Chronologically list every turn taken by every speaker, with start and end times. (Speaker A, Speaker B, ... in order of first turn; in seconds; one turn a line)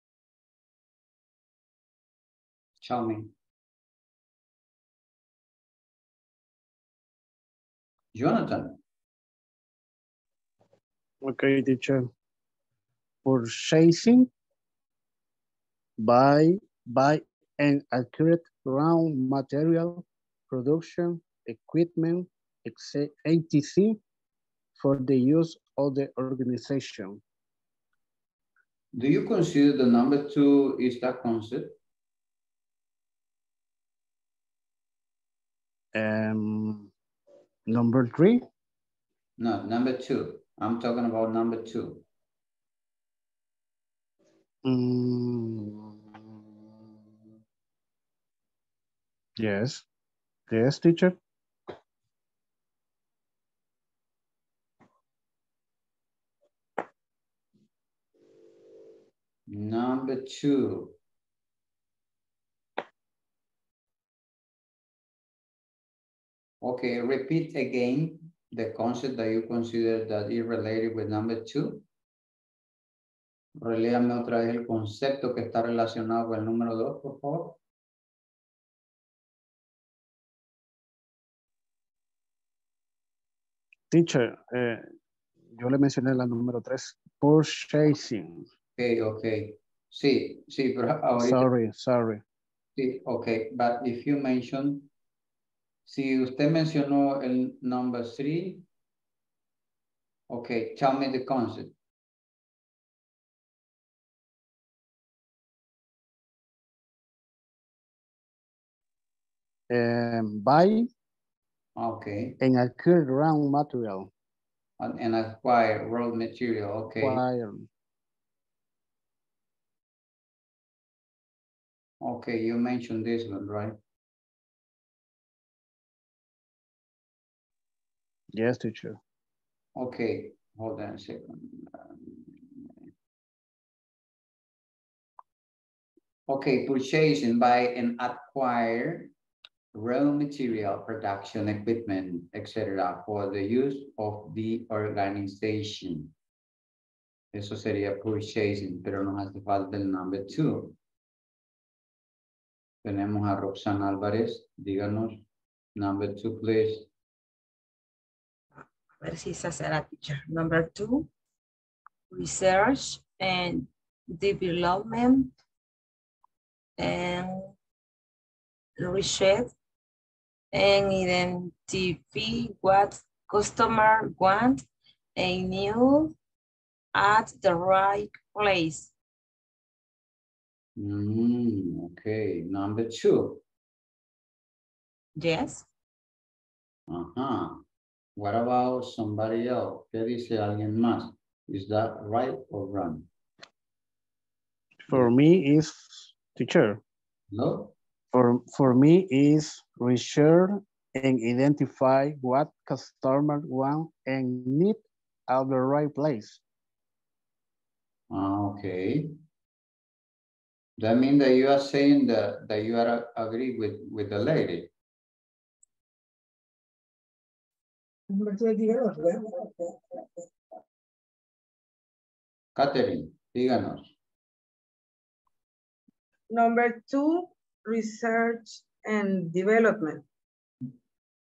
Speaker A: 2.8-3.3
Speaker A: 8.1-8.8
Speaker B: 11.2-12.1
Speaker B: 13.2-14.3
Speaker B: 16.0-24.0
Speaker B: 24.8-27.2
Speaker A: 28.9-31.8
Speaker B: 35.9-36.9
Speaker B: 37.7-38.4
Speaker A: 39.4-42.0
Speaker B: 44.6-46.2
Speaker B: 49.4-49.9
Speaker B: 50.5-51.2
Speaker A: 59.5-61.0
Speaker A: 66.6-71.8
Speaker A: 73.6-77.6
Speaker B: 83.9-84.9
Speaker B: 85.5-88.5
Speaker A: 88.8-91.5
Speaker B: 91.2-92.2
Speaker A: 92.8-94.9
Speaker A: 95.9-98.6
Speaker A: 100.3-101.7
Speaker B: 109.7-110.9
Speaker A: 111.8-112.4
Speaker B: 112.4-114.1
Speaker A: 114.8-117.2
Speaker B: 117.0-117.7
Speaker A: 122.0-123.8
Speaker B: 128.3-129.0
Speaker A: 129.8-132.7
Speaker A: 136.3-139.1
Speaker A: 139.7-146.1
Speaker A: 147.3-150.8
Speaker A: 152.8-155.2
Speaker A: 155.8-156.9
Speaker C: 159.0-161.1
Speaker C: 162.1-165.3
Speaker C: 166.8-167.5
Speaker C: 168.8-169.5
Speaker C: 170.5-174.7
Speaker C: 175.2-176.2
Speaker C: 176.9-178.9
Speaker A: 180.8-183.4
Speaker C: 185.2-185.7
Speaker A: 186.9-187.6
Speaker A: 188.2-193.1
Speaker B: 194.8-196.8
Speaker A: 197.3-197.7
Speaker B: 198.1-206.4
Speaker A: 208.1-209.1
Speaker A: 210.8-214.7
Speaker D: 218.1-220.0
Speaker A: 222.6-223.9
Speaker D: 226.3-230.0